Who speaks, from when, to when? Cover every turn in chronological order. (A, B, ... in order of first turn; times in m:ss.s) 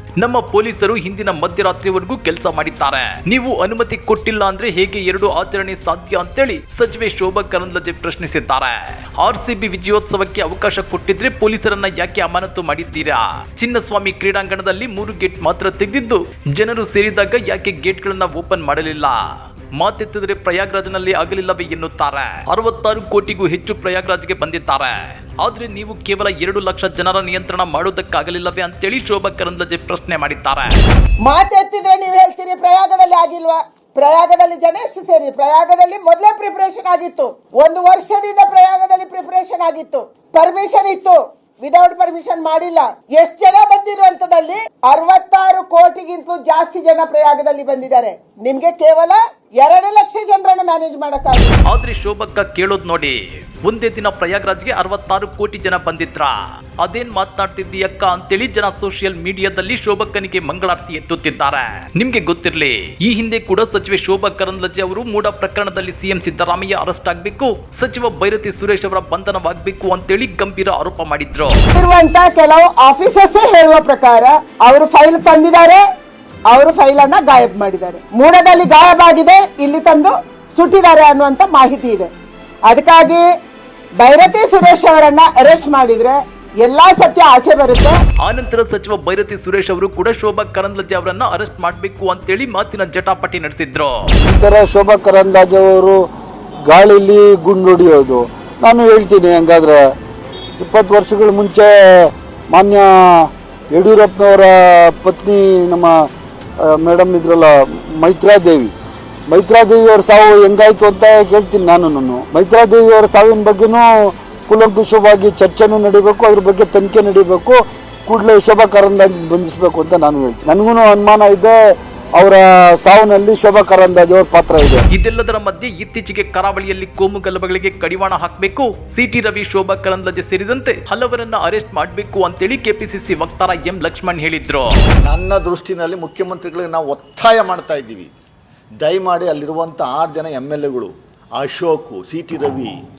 0:00.2-0:19.2 A
0:19.8-0:30.7 A
0:31.3-0:51.6 B
0:51.7-1:11.6 A
1:11.8-1:15.8 B
1:16.5-1:22.1 B
1:22.7-1:23.3 B
1:24.0-1:28.0 B
1:28.2-1:33.9 A
1:34.2-1:36.0 C
1:36.7-1:39.9 C
1:40.6-1:46.1 C
1:46.6-1:48.7 C
1:49.3-1:53.9 C
1:54.5-2:01.6 C
2:02.2-2:04.8 C
2:04.9-2:14.7 A
2:15.0-2:18.1 D
2:18.8-2:22.8 D